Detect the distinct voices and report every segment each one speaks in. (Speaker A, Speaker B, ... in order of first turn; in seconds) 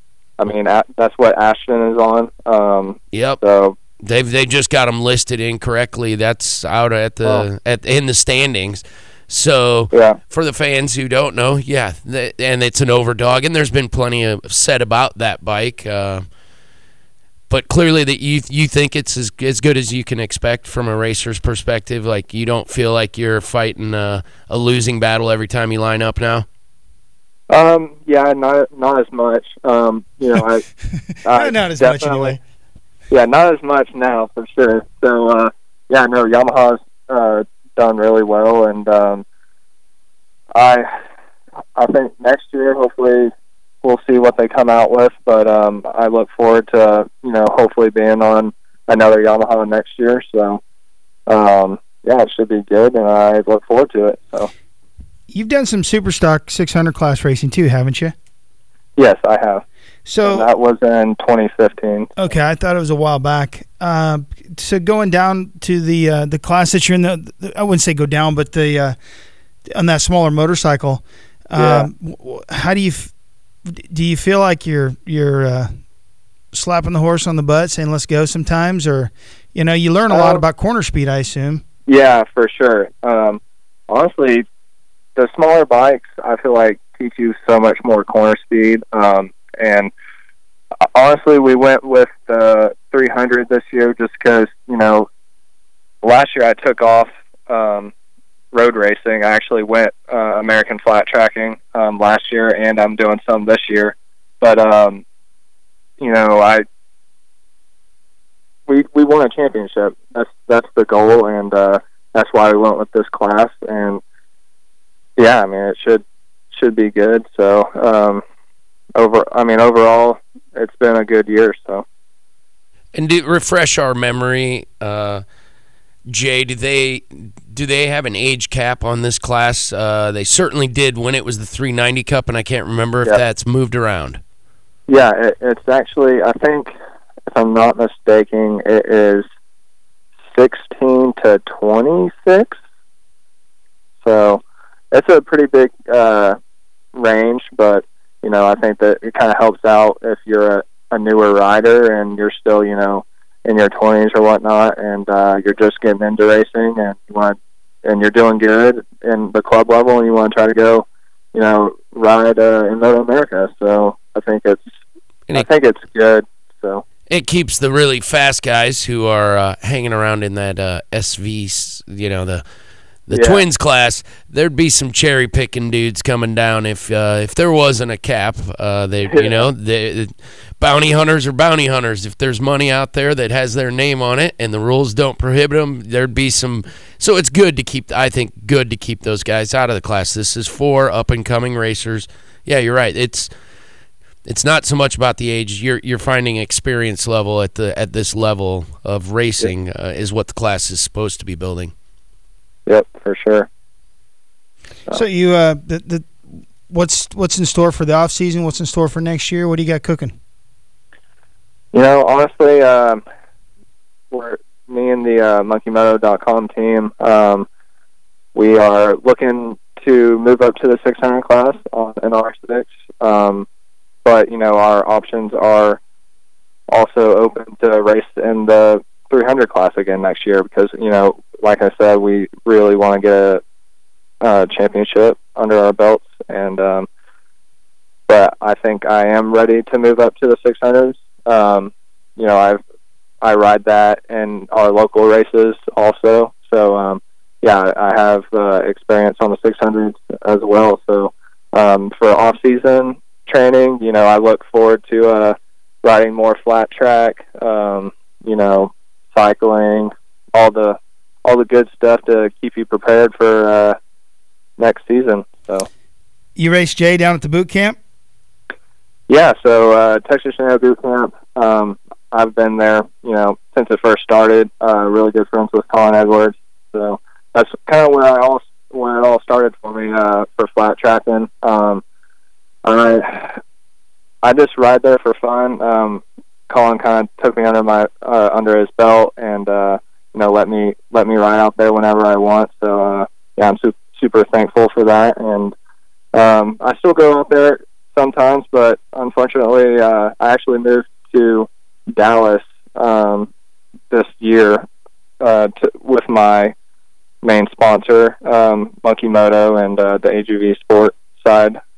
Speaker A: 0.4-3.8, 9.9-10.2, 27.5-30.6, 31.2-32.4, 33.1-39.2, 40.5-40.9, 41.7-43.3, 43.8-50.6, 51.3-54.5, 59.0-59.6, 60.2-62.1, 71.5-71.9, 80.1-80.4, 81.9-84.5, 85.2-89.9, 90.9-95.1, 96.0-97.9, 98.5-105.0, 106.0-106.6, 108.7-114.0, 115.2-118.2, 118.9-121.8, 134.9-136.7, 137.3-139.2, 140.3-142.6, 144.0-146.4, 146.9-164.7, 165.3-166.8, 173.1-173.5, 179.0-179.5, 202.7-203.5, 211.7-213.0, 214.1-217.5, 218.3-223.4, 224.0-225.8, 226.7-233.4, 234.2-236.9, 238.1-242.6, 243.2-263.8, 264.6-265.7, 269.1-281.8, 282.6-283.4, 284.2-295.5, 296.1-303.3, 303.9-304.6, 305.2-306.5, 307.2-311.6
Speaker B: 3.1-3.4, 4.0-16.2, 17.5-26.4, 122.9-125.2, 126.1-134.2, 167.1-172.4, 173.1-193.3, 194.2-201.7
Speaker C: 31.3-32.4, 55.3-58.1, 60.0-60.5, 62.2-69.0, 69.7-73.1, 73.7-75.7, 76.5-81.6, 204.9-206.2, 206.7-210.1, 266.4-267.8